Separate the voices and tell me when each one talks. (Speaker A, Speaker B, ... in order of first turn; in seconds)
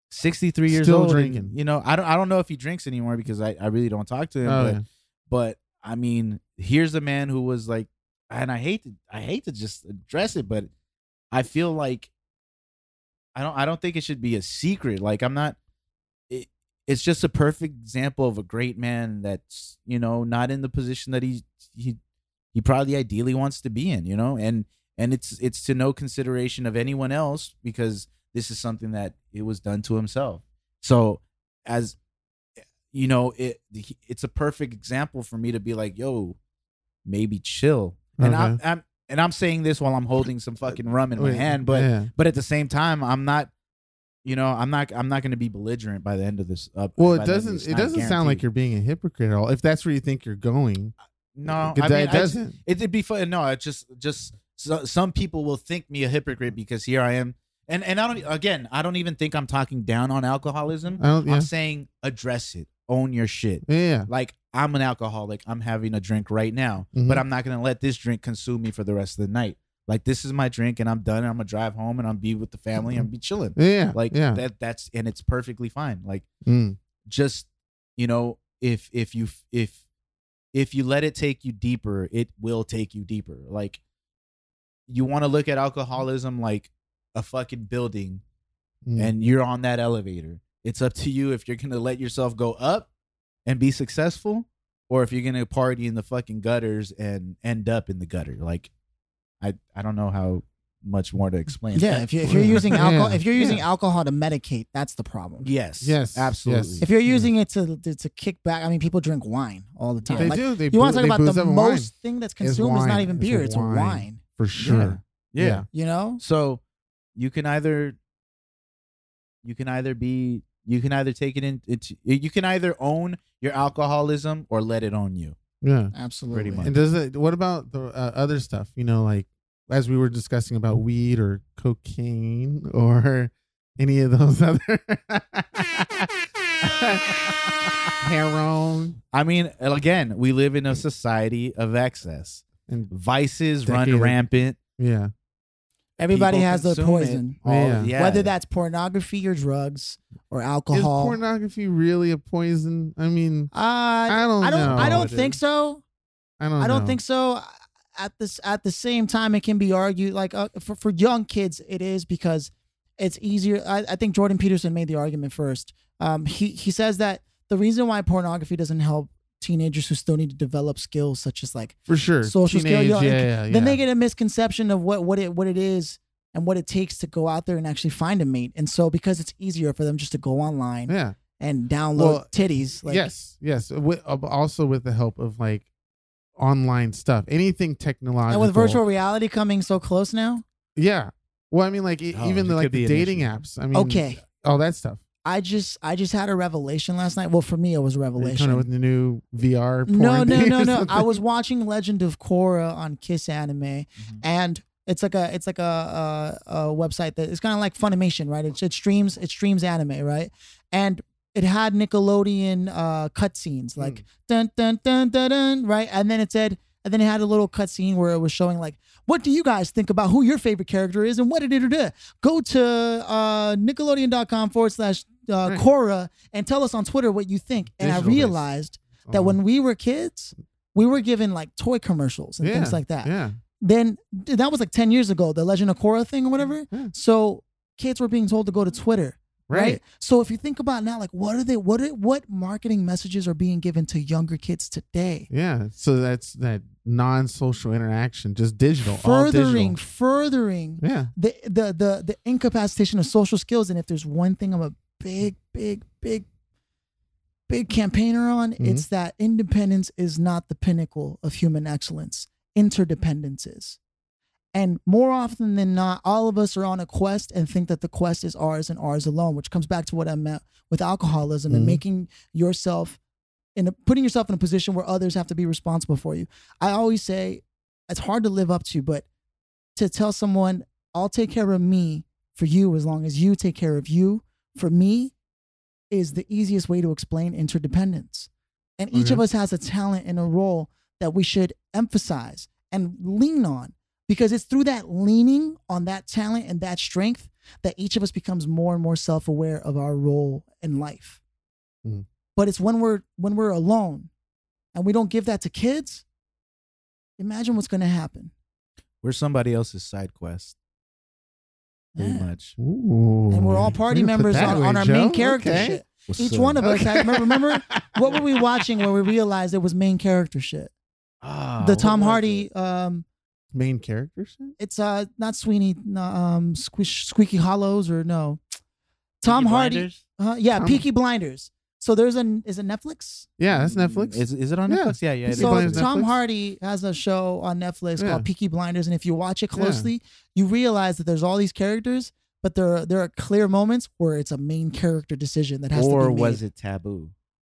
Speaker A: 0.1-10.7, 11.3-12.1, 13.3-15.6, 16.3-22.0, 22.5-32.0, 32.9-36.4, 37.0-43.5, 44.2-48.5, 51.3-76.3, 77.1-79.8, 80.5-83.8, 84.9-88.2, 89.0-92.9, 93.5-98.7, 99.4-102.8, 105.4-106.9, 110.0-110.4, 114.6-115.7, 116.2-116.6, 117.2-118.0, 119.4-125.4, 126.3-126.8, 139.1-144.6, 146.1-148.3, 154.5-155.4, 192.1-193.3, 309.0-310.6, 312.0-312.6, 314.3-314.6, 316.1-316.6, 321.2-322.5, 329.3-330.0, 333.5-335.9, 345.7-347.1
Speaker B: 0.7-1.6, 4.5-4.8, 38.2-38.6, 41.2-42.1, 47.0-50.9, 51.5-52.5, 61.0-61.5, 63.7-64.1, 66.9-67.2, 72.9-74.4, 76.5-76.8, 88.9-89.1, 102.2-103.6, 105.8-107.3, 110.2-115.7, 125.6-125.9, 126.6-136.1, 136.6-137.1, 138.0-139.0, 143.6-144.2, 144.8-145.1, 147.4-147.9, 150.7-153.5, 154.1-155.2, 156.4-157.0, 171.9-173.8, 180.9-181.2, 182.0-182.3, 182.8-185.7, 186.4-188.8, 190.8-195.0, 198.2-201.2, 213.8-214.0, 227.8-228.4, 229.1-229.4, 232.4-233.4, 239.5-239.8, 245.3-249.8, 250.8-251.1, 258.6-258.9, 271.5-271.8, 288.9-289.2, 312.6-315.8, 316.6-317.9, 323.5-324.6, 330.6-330.8, 333.4-336.1, 338.0-338.3, 339.6-339.9
Speaker C: 101.7-105.5, 106.8-114.2, 115.7-116.2, 125.9-126.7, 146.0-147.4, 147.9-151.2, 153.5-155.8, 156.6-183.1, 188.3-190.4, 193.7-194.2, 195.2-198.7, 199.9-245.3, 248.9-256.3, 257.5-263.8, 264.5-273.0, 273.6-279.1, 279.8-285.1, 285.9-301.2, 302.4-304.1, 304.7-306.0, 307.2-308.3, 311.9-312.3, 313.3-320.7, 321.6-323.1, 324.6-328.4, 329.2-333.3, 335.3-346.4